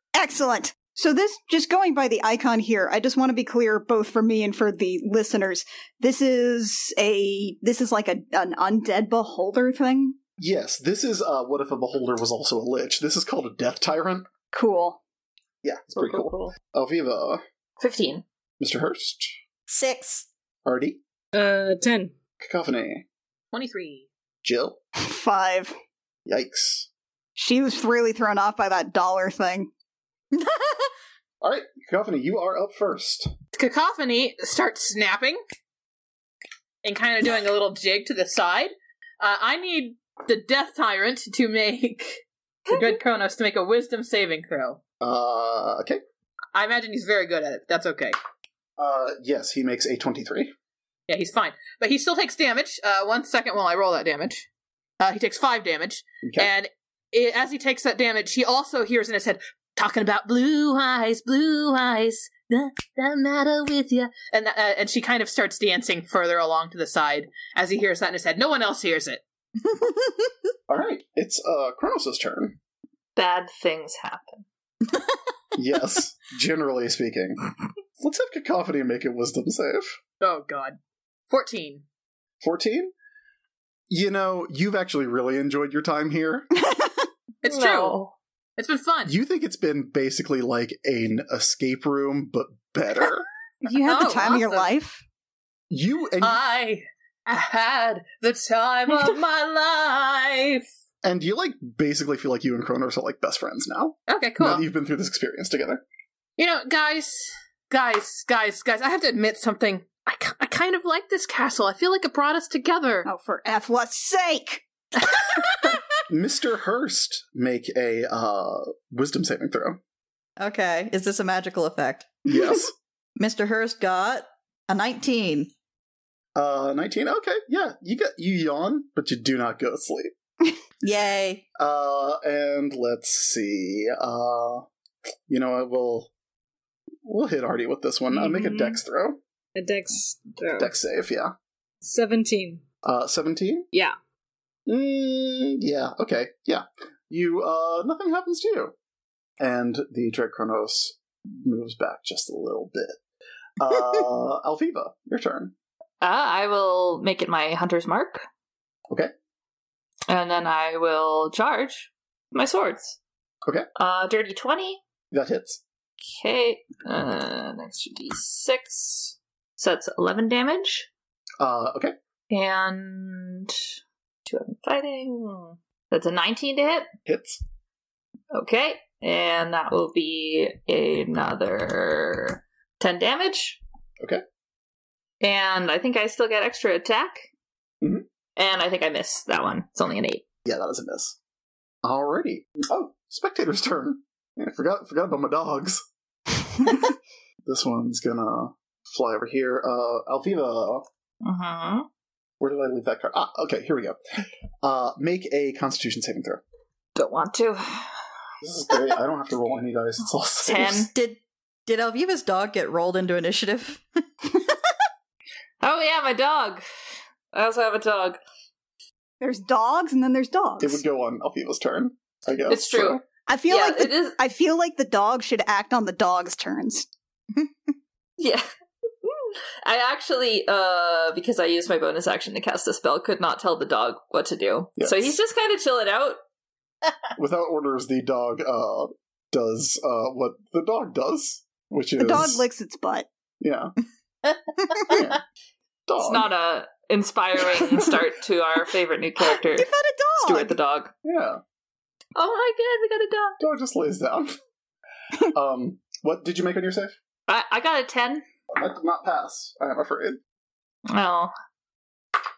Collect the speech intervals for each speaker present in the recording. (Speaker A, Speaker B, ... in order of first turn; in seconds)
Speaker A: 0.1-10.2, 14.5-15.0, 25.0-25.8, 27.4-29.7, 86.5-87.1, 93.6-95.0, 113.0-114.6, 219.2-220.8, 223.2-226.9, 242.0-243.1, 249.2-250.6
Speaker B: 10.4-14.3, 15.6-17.4, 18.6-19.3, 20.6-21.0, 22.4-23.0, 24.4-24.8, 26.2-26.9, 31.4-33.3, 45.0-46.0, 48.8-50.5, 56.2-56.5, 70.7-72.6, 75.5-77.5, 78.0-80.0, 82.4-82.9, 83.9-86.5, 89.1-93.3, 95.7-96.4, 101.0-105.8, 116.1-119.8, 122.3-122.7, 126.3-130.1, 131.6-134.7, 135.3-136.1, 137.0-139.2, 140.6-141.3, 142.8-143.7, 144.7-148.7, 149.4-152.9, 153.6-155.5, 165.1-165.6, 171.4-171.9, 177.1-177.4, 190.4-191.2, 191.8-195.8, 197.4-200.8, 202.4-204.0, 204.6-206.4, 208.4-210.9, 220.6-223.0, 234.8-235.1, 237.2-242.4, 243.4-243.7, 244.8-245.2, 245.9-246.3, 251.0-251.4, 253.4-254.3, 255.2-256.9, 258.5-260.2
Speaker C: 15.9-16.6, 17.8-18.2, 73.2-74.4, 87.4-88.1, 156.0-158.2, 160.1-163.0, 163.8-164.8, 166.0-170.9, 172.3-173.5, 174.3-176.9, 178.3-183.6, 185.2-187.2, 188.3-190.2, 201.2-201.9, 206.9-208.0, 210.4-210.9, 215.6-216.6, 217.3-218.2, 222.5-224.2, 228.2-228.4, 229.0-236.2, 246.0-250.9, 252.2-253.4, 257.3-258.2, 260.9-261.3
Speaker D: 19.7-20.3, 30.4-30.9, 120.4-122.2, 123.2-125.5, 130.8-131.4, 210.9-213.8
Speaker E: 21.3-22.1, 138.1-138.8, 139.5-140.7, 141.8-142.6
Speaker F: 23.5-24.1, 33.5-35.4, 36.8-44.8, 46.5-48.1, 51.1-54.4, 55.0-69.2, 80.2-80.8, 81.3-81.8, 87.4-88.0, 88.6-89.1, 93.7-94.7, 96.2-100.7, 104.1-104.6, 106.4-113.1